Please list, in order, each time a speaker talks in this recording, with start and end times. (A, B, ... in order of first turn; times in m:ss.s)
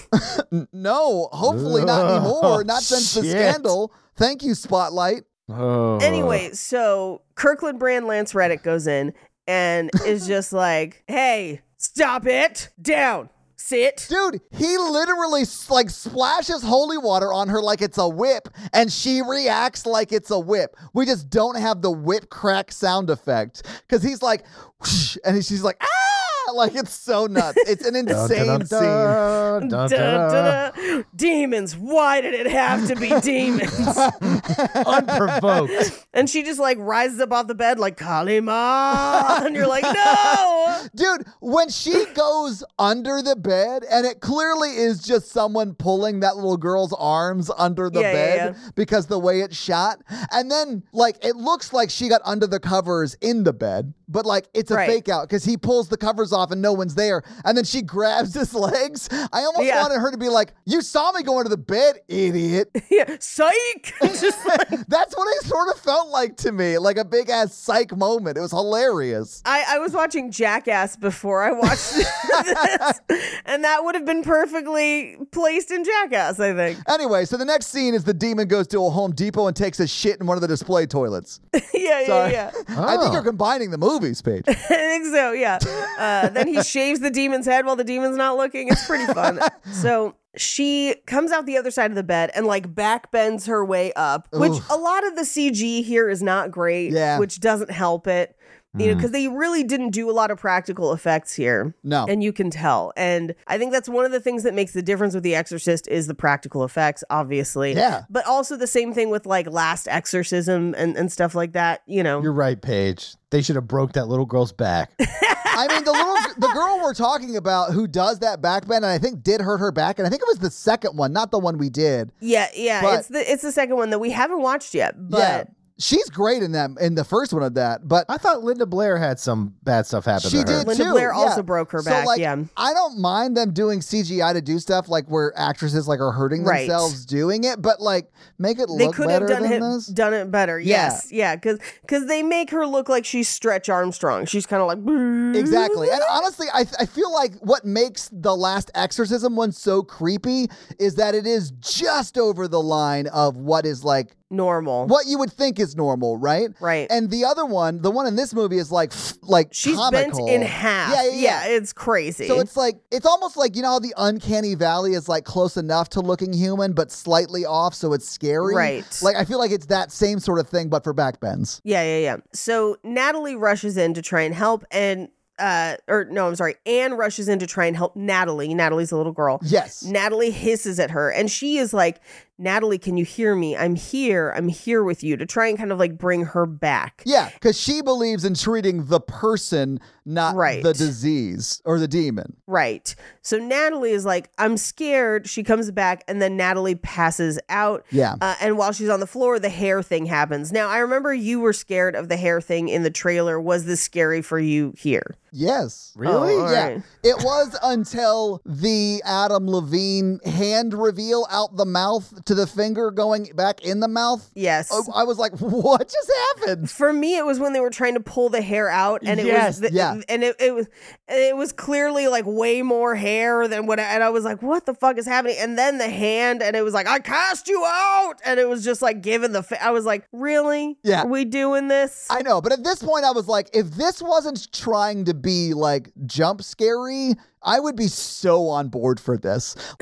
0:00.2-0:05.2 A
0:01.4-0:03.7 B
0:05.5-0:06.4 B
0:06.0-0:14.1 C
0:14.1-0:29.4 A
0:28.1-0:30.6 B
0:29.6-0:34.0 C
0:33.8-0:35.6 A
0:34.7-0:35.9 B
0:36.0-0:40.8 C
0:39.0-1:02.7 A
0:47.9-0:48.6 C
0:54.7-0:55.0 C
0:59.6-0:59.9 C
1:02.8-1:04.8 C
1:04.0-1:09.4 A
1:09.4-1:16.8 C
1:11.8-1:12.8 A
1:16.8-1:21.4 A
1:21.5-1:22.6 C
1:22.0-1:24.5 A
1:22.7-1:23.2 B
1:24.5-1:52.3 C
1:25.8-1:26.5 A
1:28.7-1:29.8 A
1:34.3-1:34.7 A
1:36.9-1:37.2 A
1:38.8-1:39.1 B
1:41.8-1:42.1 A
1:47.7-1:48.0 A
1:52.2-1:54.9 B
1:55.0-1:56.5 C
1:55.5-2:02.1 A
2:02.2-2:05.5 C
2:02.8-2:03.0 A
2:05.1-2:08.1 A
2:08.1-2:10.7 B
2:10.2-2:19.9 A
2:10.6-2:12.5 C
2:16.4-2:16.9 C
2:18.7-2:26.1 C
2:20.6-2:21.0 A
2:25.3-2:34.1 A
2:34.3-2:34.9 C
2:34.8-2:41.5 A
2:36.6-2:36.9 C
2:39.5-2:42.5 C
2:42.2-2:51.6 A
2:48.4-2:49.0 C
2:51.6-3:07.0 C
2:59.4-2:59.9 A
3:07.0-3:12.4 A
3:10.3-3:10.9 C
3:12.5-3:25.1 C
3:17.9-3:18.2 A
3:25.3-3:36.7 A
3:26.0-3:26.5 B
3:26.0-3:26.8 C
3:34.4-3:34.9 C
3:36.6-3:52.1 C
3:39.0-3:39.6 B
3:39.6-3:40.0 A
3:52.1-3:59.6 A